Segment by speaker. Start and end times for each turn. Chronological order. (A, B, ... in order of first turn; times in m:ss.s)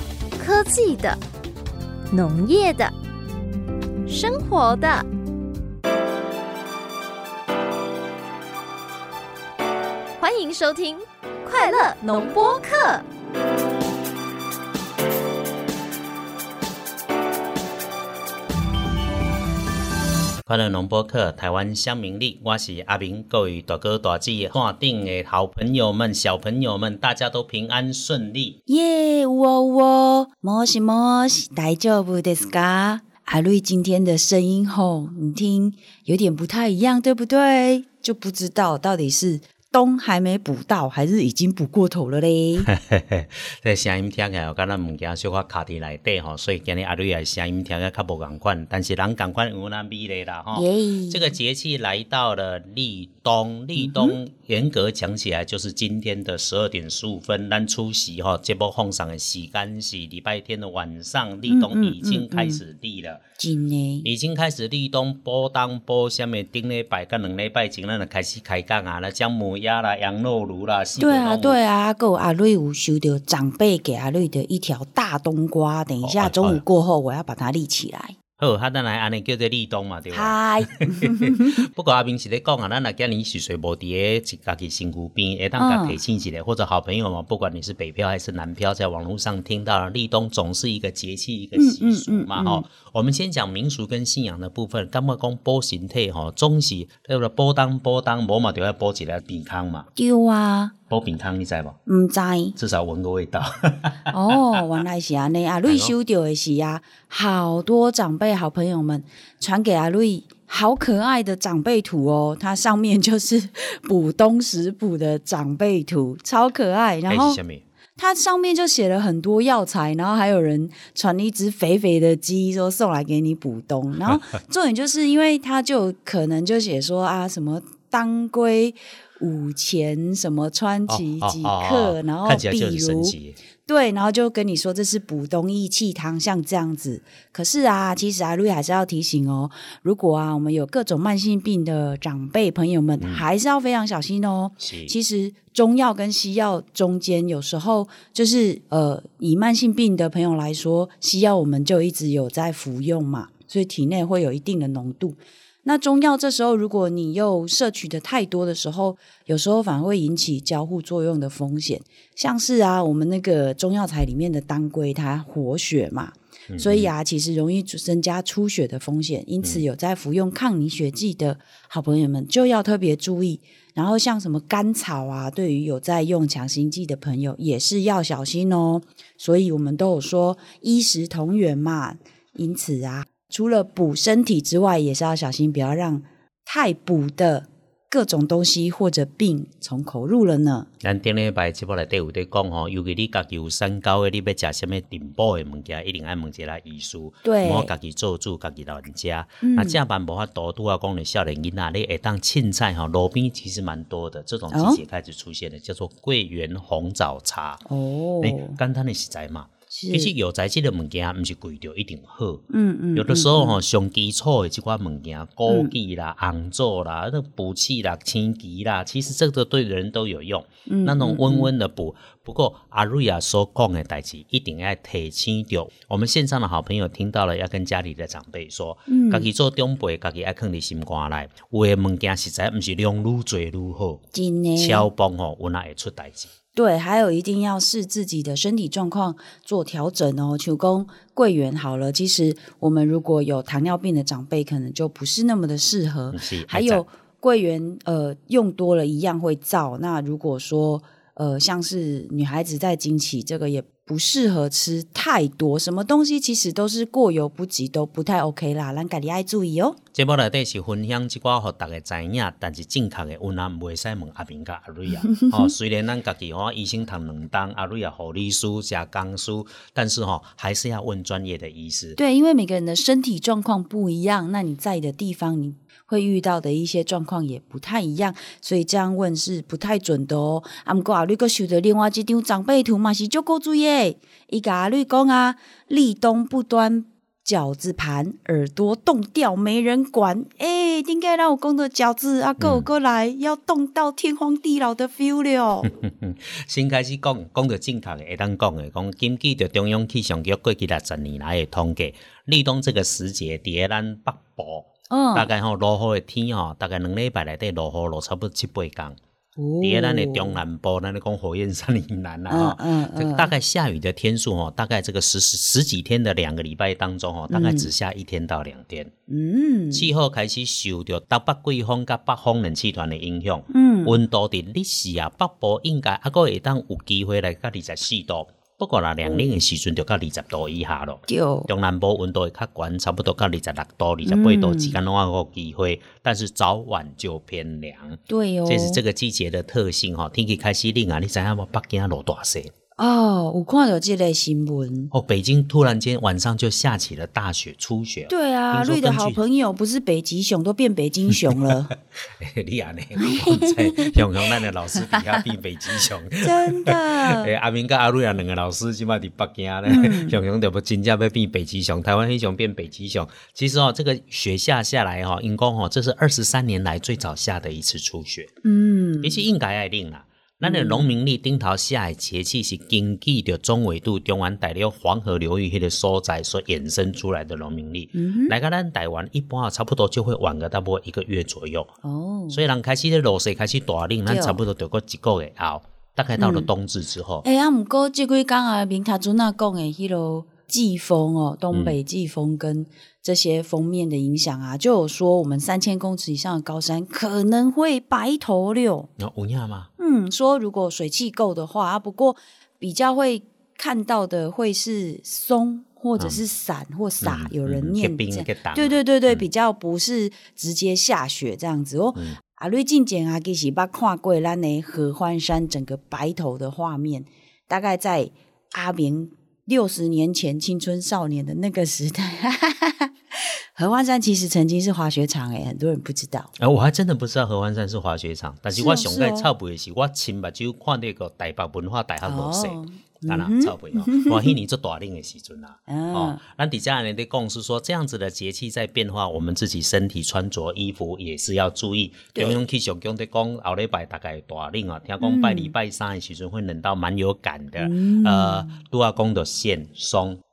0:00.4-0:01.2 A
0:02.1-0:02.9 A
0:04.1-0:05.0 A
0:10.2-0:13.0 A
0:20.4-0:28.6 B
0:28.7-0:42.7 C
0:42.6-1:03.2 B
0:50.5-0:51.3 C
0:53.8-0:54.2 C
1:01.5-1:02.6 C
1:03.4-1:04.1 C
1:04.0-1:11.6 B
1:11.0-1:18.2 C
1:16.0-1:16.6 B
1:18.4-1:39.9 B
1:20.1-1:21.6 C
1:25.6-1:26.0 C
1:31.5-1:32.6 C
1:39.9-1:40.7 C
1:40.9-1:41.8 B
1:41.8-1:42.6 C
1:42.6-1:44.6 B
1:44.1-1:57.4 C
1:45.6-1:45.9 B
1:57.1-1:57.6 B
1:58.0-3:10.7 C
2:10.9-2:13.4 B
2:23.0-2:23.3 B
2:24.6-2:24.9 B
2:46.5-2:46.9 B
3:10.8-3:27.6 B
3:17.2-3:17.7 C
3:19.4-3:19.8 C
3:24.5-3:24.8 C
3:27.6-3:28.6 C
3:28.2-3:54.0 B
3:29.7-3:30.1 C
3:32.5-3:33.6 C
3:35.5-3:35.7 C
3:40.7-3:41.5 C
3:48.9-3:49.3 C
3:54.1-3:54.9 C
3:54.6-3:56.3 B
3:56.5-4:19.8 C
4:06.1-4:06.8 B
4:19.9-4:32.0 B
4:25.1-4:25.5 C
4:32.0-4:55.7 C
4:52.4-4:52.7 B
4:55.6-5:09.0 B
5:04.9-5:05.3 C
5:09.4-5:10.4 C
5:09.6-5:18.9 B
5:12.3-5:13.3 C
5:17.3-5:17.7 C
5:19.1-5:19.9 C
5:19.7-5:42.5 B
5:23.5-5:24.0 C
5:31.1-5:31.5 C
5:34.0-5:34.8 C
5:38.1-5:38.8 C
5:42.8-5:44.9 C
5:44.9-5:49.2 B
5:48.1-5:51.7 C
5:51.2-5:51.5 B
5:52.2-6:08.3 B
5:53.0-5:54.3 C
5:54.8-5:55.2 C
5:56.2-5:57.3 C
5:59.6-6:00.2 C
6:08.4-6:09.2 C
6:09.0-6:21.7 B
6:10.4-6:10.9 C
6:17.9-6:18.4 C
6:21.8-6:22.4 C
6:22.3-6:27.2 B
6:24.0-6:24.4 C
6:26.2-6:26.5 C
6:27.2-6:38.9 C
6:31.5-6:31.8 B
6:39.0-6:39.7 B
6:39.8-7:06.3 C
6:47.0-6:49.2 B
7:06.4-7:30.2 B
7:08.5-7:09.3 C
7:12.0-7:14.4 C
7:15.7-7:16.2 C
7:25.0-7:25.5 C
7:27.6-7:28.6 C